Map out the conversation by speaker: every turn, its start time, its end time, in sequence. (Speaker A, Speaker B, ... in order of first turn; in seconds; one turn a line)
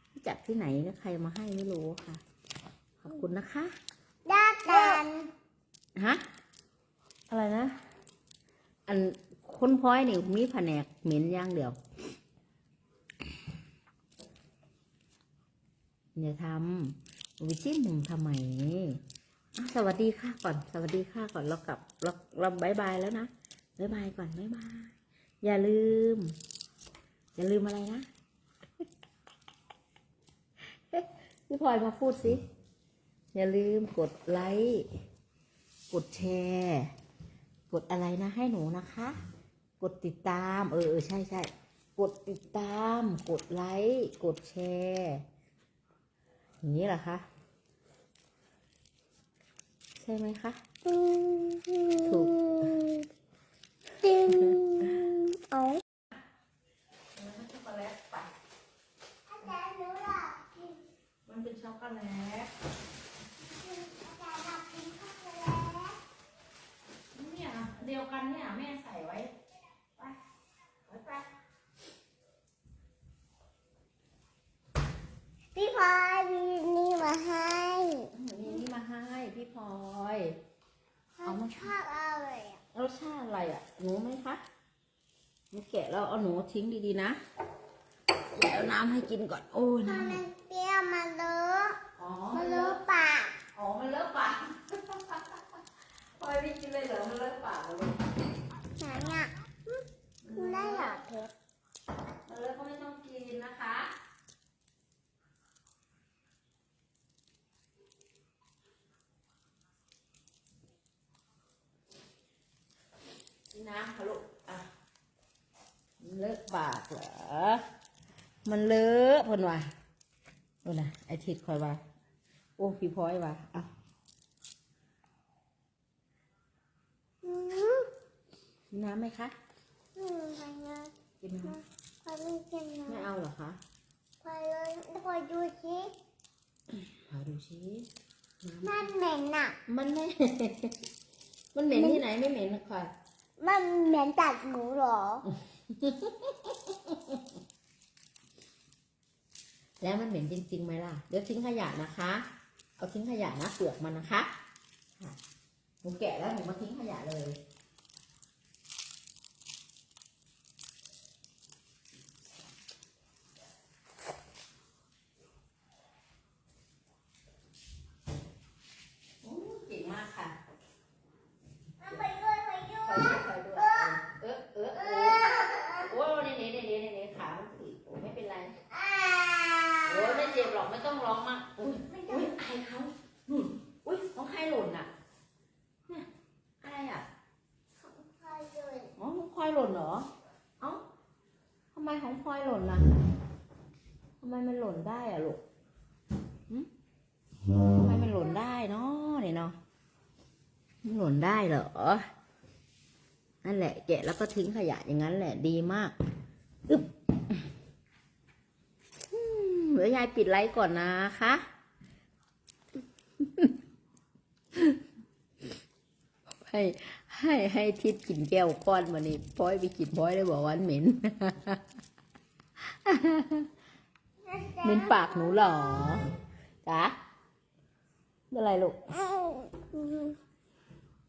Speaker A: 0.2-2.2
Speaker A: 3.0-3.7
Speaker B: 4.2-5.3
Speaker A: 4.7-5.0
Speaker A: 6.0-6.2
Speaker A: 7.3-7.8
Speaker A: 8.9-11.8
Speaker A: 16.1-19.0
Speaker A: 19.6-26.4
Speaker A: 27.4-28.1
Speaker A: 30.9-32.4
Speaker A: 33.3-34.9
Speaker A: 35.9-36.9
Speaker A: 37.7-39.2
Speaker A: 39.8-45.2
Speaker A: 46.6-47.2
Speaker A: 50.0-50.6
Speaker B: 50.9-53.1
Speaker A: 52.0-52.7
Speaker B: 54.0-55.8
Speaker A: 54.3-54.6
Speaker A: 57.1-58.3
Speaker B: 59.3-60.8
Speaker A: 61.3-62.5
Speaker B: 63.5-66.0
Speaker A: 67.1-69.3
Speaker A: 70.9-71.3
Speaker B: 75.5-78.6
Speaker A: 78.1-80.4
Speaker B: 81.2-82.6
Speaker A: 81.2-81.7
Speaker A: 82.7-84.4
Speaker A: 85.5-87.2
Speaker A: 88.3-90.2
Speaker B: 89.8-91.8
Speaker A: 92.0-92.8
Speaker B: 92.3-93.3
Speaker A: 93.5-95.6
Speaker A: 96.2-98.0
Speaker B: 98.8-99.8
Speaker A: 100.2-101.0
Speaker B: 100.3-101.3
Speaker A: 102.2-103.9
Speaker A: 113.5-114.7
Speaker A: 116.0-117.6
Speaker A: 118.5-119.7
Speaker A: 120.6-121.8
Speaker A: 122.6-123.7
Speaker B: 127.2-127.9
Speaker A: 128.7-129.3
Speaker B: 129.9-130.9
Speaker A: 131.2-131.6
Speaker B: 131.4-133.1
Speaker A: 132.9-133.6
Speaker B: 134.2-135.9
Speaker A: 136.9-137.9
Speaker A: 138.4-138.8
Speaker B: 138.6-139.6
Speaker A: 139.7-140.8
Speaker A: 141.5-142.9
Speaker B: 141.7-142.0
Speaker B: 143.4-145.3
Speaker A: 145.3-147.2
Speaker A: 149.8-152.3
Speaker A: 152.8-154.3
Speaker A: 155.8-157.4
Speaker A: 169.2-170.4
Speaker B: 171.8-173.9
Speaker A: 172.8-178.6
Speaker B: 174.8-175.9
Speaker B: 178.7-180.4
Speaker A: 179.9-184.9
Speaker B: 181.8-182.3
Speaker A: 186.6-187.1
Speaker B: 187.8-188.9
Speaker A: 189.0-190.8
Speaker A: 191.7-193.1
Speaker A: 194.2-195.4
Speaker A: 197.6-199.6
Speaker A: 200.8-202.1
Speaker A: 203.4-206.0
Speaker A: 206.7-207.4
Speaker A: 209.1-211.4
Speaker A: 213.2-213.5
Speaker A: 214.5-214.8
Speaker A: 216.3-221.6
Speaker A: 222.6-223.5
Speaker B: 224.2-225.6
Speaker A: 224.6-226.1
Speaker A: 226.7-227.0
Speaker A: 228.3-228.9
Speaker B: 228.9-230.2